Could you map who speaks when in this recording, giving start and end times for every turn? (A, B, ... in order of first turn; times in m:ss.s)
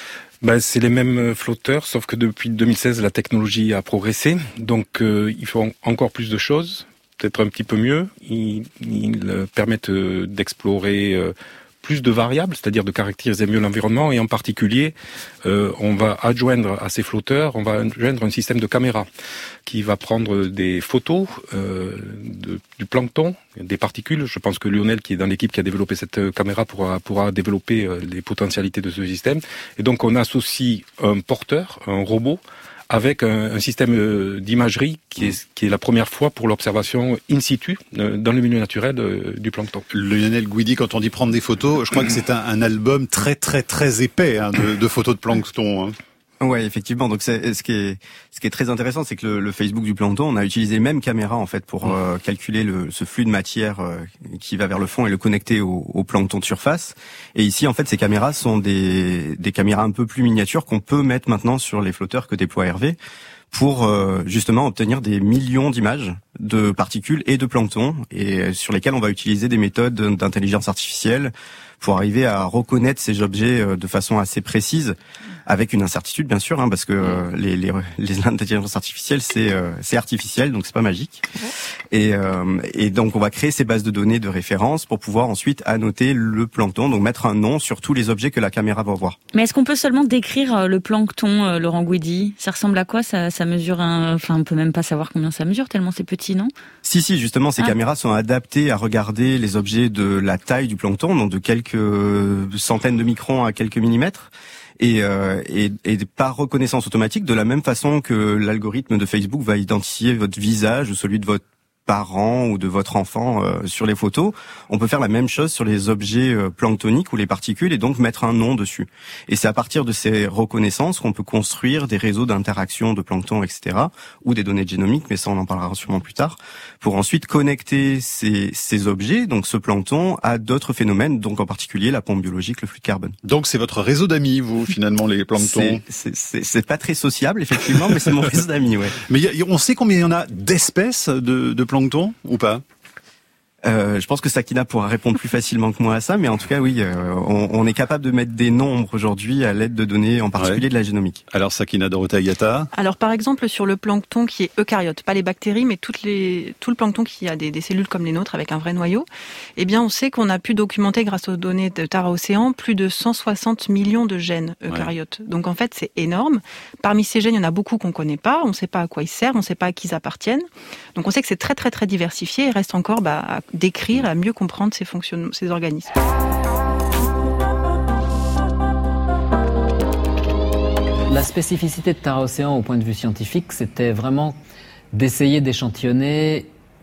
0:00.4-0:19.1 A
0:19.7-0:39.8 A
0:39.9-0:46.0 B
0:46.4-1:03.0 C
1:03.5-1:21.2 C
1:21.9-1:29.2 C
1:29.3-1:36.5 D
1:36.8-2:13.2 C
2:13.2-2:15.8 B
2:15.4-2:19.0 C
2:19.1-2:22.6 B
2:23.6-2:31.2 C
2:30.4-2:30.6 B
2:31.3-2:32.7 B
2:32.7-2:55.9 E
3:01.1-3:04.4 F
3:04.9-3:06.5 F